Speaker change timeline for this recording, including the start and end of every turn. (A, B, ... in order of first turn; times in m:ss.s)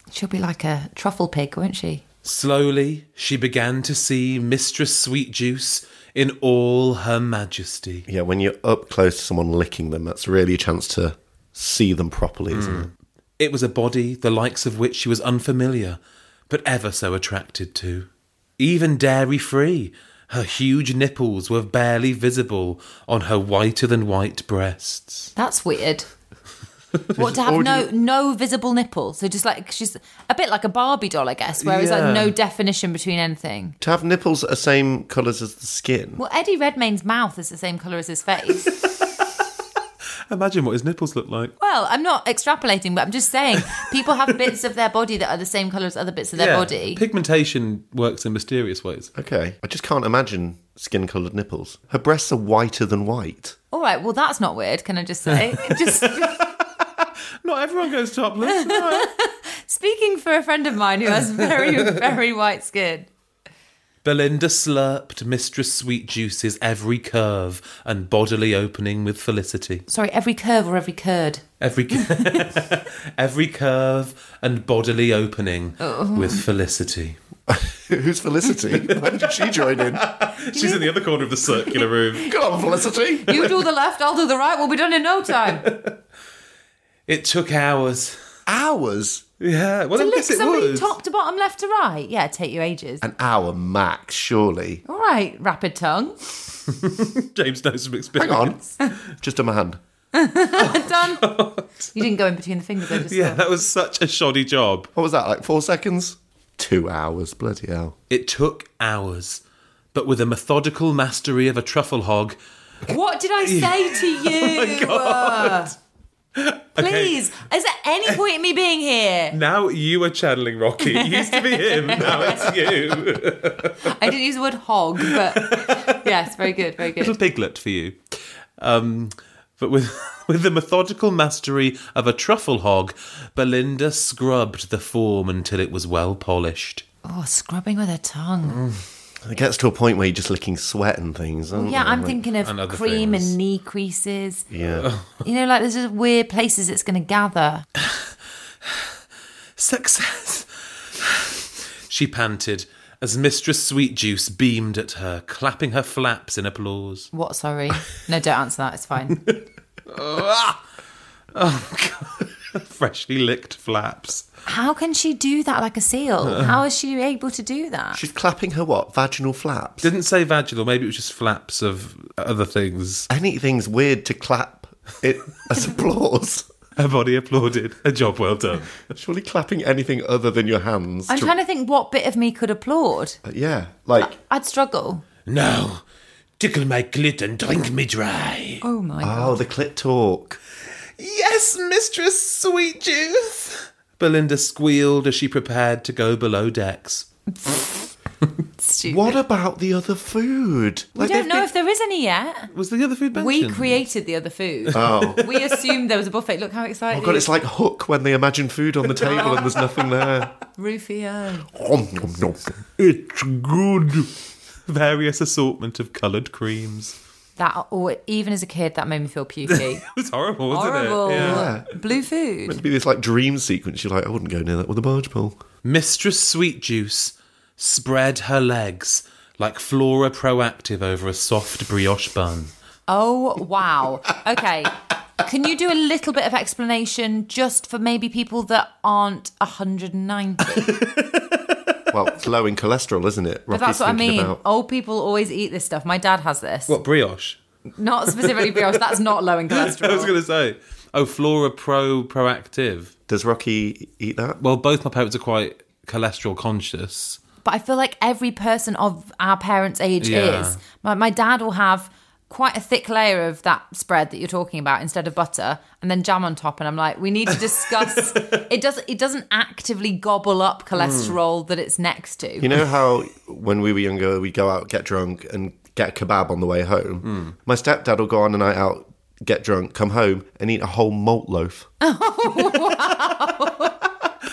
0:00.1-0:02.0 A
0:02.2-0:08.1 B
0:08.1-0:12.9 C
0:12.5-0:25.3 B
0:25.4-0:26.1 A
0:27.2-0:27.9 C
0:27.2-0:33.8 A
0:31.6-0:32.3 B
0:33.8-0:36.2 C
0:36.2-0:38.8 A
0:40.3-0:41.6 B
0:41.6-0:47.0 A
0:46.4-0:49.1 B
0:49.2-0:53.6 C
0:53.7-0:56.5 A
0:55.3-0:59.1 B
0:58.4-1:03.1 A
1:01.3-1:01.9 B
1:04.0-1:09.9 B
1:09.9-1:11.4 A
1:11.6-1:17.2 B
1:12.0-1:12.5 A
1:15.8-1:16.4 A
1:17.5-1:20.1 C
1:18.9-1:22.3 B
1:20.5-1:20.9 A
1:21.5-1:21.9 A
1:22.2-1:23.5 C
1:23.3-1:25.7 A
1:25.4-1:26.0 B
1:27.1-1:28.2 B
1:28.5-1:29.2 C
1:29.4-1:30.9 B
1:30.0-1:33.0 A
1:33.0-1:34.8 C
1:34.9-1:36.2 A
1:36.7-1:38.6 B
1:38.2-1:39.8 C
1:40.1-1:41.3 A
1:40.6-1:41.9 B
1:42.0-1:43.4 A
1:42.9-1:44.9 B
1:45.0-1:48.0 C
1:48.1-1:49.4 B
1:49.9-1:52.4 B
1:52.9-1:55.7 A
1:53.4-1:55.7 B
1:56.4-1:57.2 B
1:56.8-1:59.4 A
1:59.3-2:03.9 B
2:00.8-2:02.7 A
2:03.8-2:07.2 A
2:05.0-2:06.1 B
2:06.8-2:08.0 B
2:08.6-2:16.8 B
2:17.0-2:18.6 A
2:18.5-2:18.8 B
2:19.2-2:22.2 C
2:21.5-2:24.5 A
2:22.4-2:23.4 B
2:24.5-2:24.9 C
2:24.8-2:25.2 B
2:25.2-2:27.6 A
2:29.6-2:37.1 B
2:37.1-2:39.3 A
2:39.3-2:40.6 B
2:41.4-2:44.2 B
2:44.5-2:48.0 A
2:46.2-2:46.6 B
2:47.9-2:49.9 C
2:49.8-2:53.1 B
2:53.1-2:56.5 C
2:56.8-2:58.7 B
2:58.9-3:01.3 C
3:01.1-3:03.2 A
3:03.2-3:04.2 C
3:04.0-3:05.0 A
3:05.3-3:05.8 B
3:06.4-3:08.6 B
3:08.6-3:09.4 A
3:09.0-3:10.4 C
3:11.0-3:17.1 B
3:17.3-3:17.9 A
3:18.6-3:19.2 A
3:18.9-3:21.5 C
3:21.0-3:22.5 A
3:22.5-3:23.8 B
3:23.1-3:27.3 A
3:24.7-3:25.6 B
3:24.7-3:25.2 C
3:26.9-3:30.4 C
3:29.0-3:29.6 A
3:30.6-3:31.5 A
3:31.5-3:32.6 C
3:32.8-3:34.1 B
3:34.7-3:37.0 B
3:37.4-3:39.8 A
3:39.5-3:41.5 B
3:40.5-3:42.6 A
3:41.1-3:41.7 C
3:42.4-3:45.4 C
3:45.6-3:52.5 B
3:52.9-4:00.8 A
4:00.6-4:01.5 B
4:01.9-4:04.4 C
4:03.5-4:06.8 A
4:06.7-4:07.4 B
4:07.8-4:10.1 A
4:08.1-4:12.9 B
4:13.1-4:14.4 C
4:14.4-4:17.2 B
4:17.4-4:32.5 A
4:20.0-4:20.6 B
4:30.8-4:31.2 B
4:32.4-4:41.7 C
4:37.0-4:37.3 B
4:41.8-4:43.8 A